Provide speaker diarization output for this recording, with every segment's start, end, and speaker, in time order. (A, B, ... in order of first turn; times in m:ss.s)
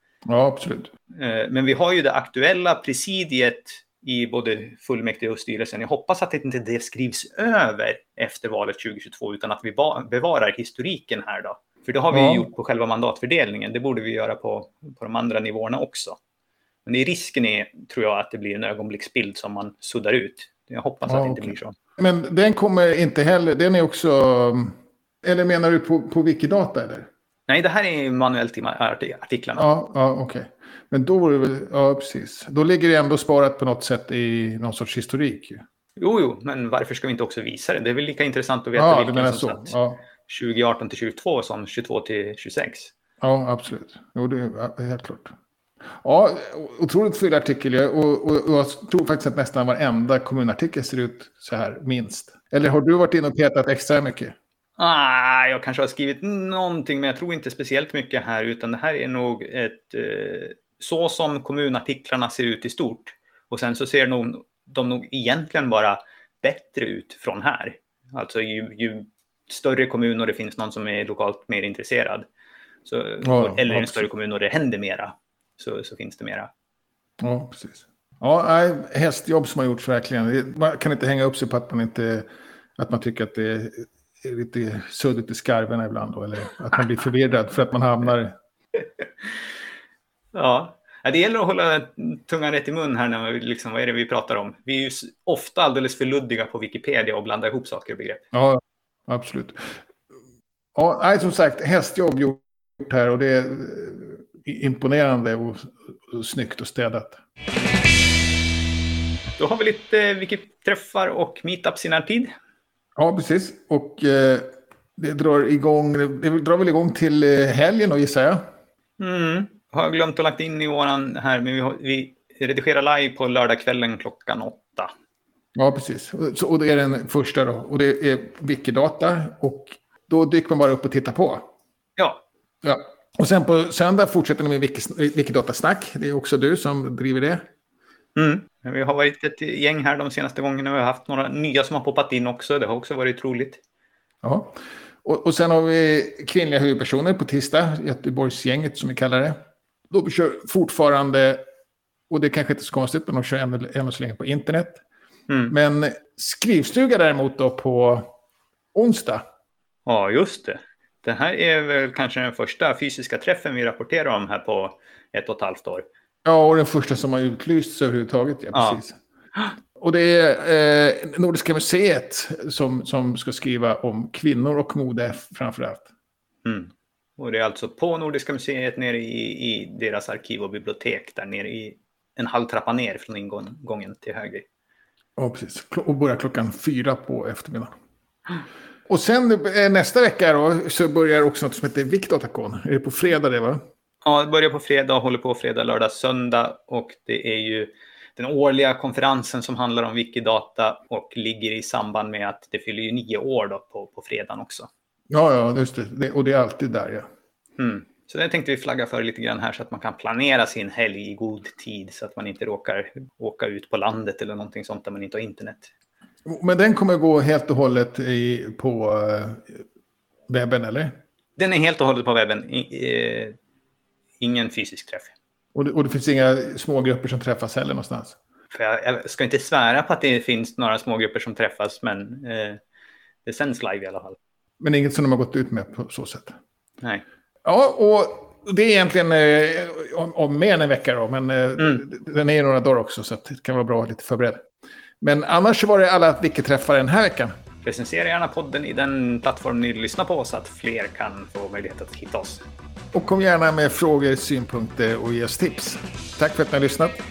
0:00.3-0:00.9 A
0:01.1-0:16.2 B
0:12.1-0:12.5 A
0:16.9-0:21.7 B
0:21.1-0:27.1 A
0:27.5-0:29.7 B
0:29.6-0:35.6 A
0:36.0-0:39.8 B
0:38.8-0:40.0 A
0:40.3-0:42.9 B
0:43.2-0:45.3 A
0:46.0-0:54.4 A
0:54.8-1:12.3 B
1:12.8-1:16.5 B
1:13.2-1:14.1 A
1:17.2-1:28.3 A
1:30.3-1:38.2 B
1:38.3-1:39.8 A
1:40.8-1:47.2 A
1:49.4-1:52.3 B
1:53.0-1:58.5 A
1:59.0-2:04.9 B
2:05.6-2:11.5 A
2:12.6-2:17.5 A
2:18.2-2:23.6 B
2:24.2-2:31.4 A
2:32.1-2:34.8 A
2:35.3-2:35.5 B
2:35.5-2:38.1 A
2:38.7-2:39.2 A
2:39.9-2:45.9 B
2:46.2-2:49.0 A
2:48.5-2:48.8 B
2:49.8-2:55.9 A
2:56.4-3:04.5 B
3:05.2-3:07.7 A
3:08.9-3:13.6 A
3:14.0-3:24.7 B
3:25.1-3:27.0 A
3:27.6-3:35.7 B
3:36.2-3:39.6 A
3:40.3-3:41.0 A
3:41.4-3:43.4 B
3:44.2-3:45.1 B
3:45.6-3:48.2 A
3:48.5-3:52.6 B
3:53.2-3:54.2 B
3:54.6-3:56.4 A
3:57.4-4:04.5 A
4:05.0-4:07.3 A
4:07.6-4:12.4 B
4:12.9-4:17.0 A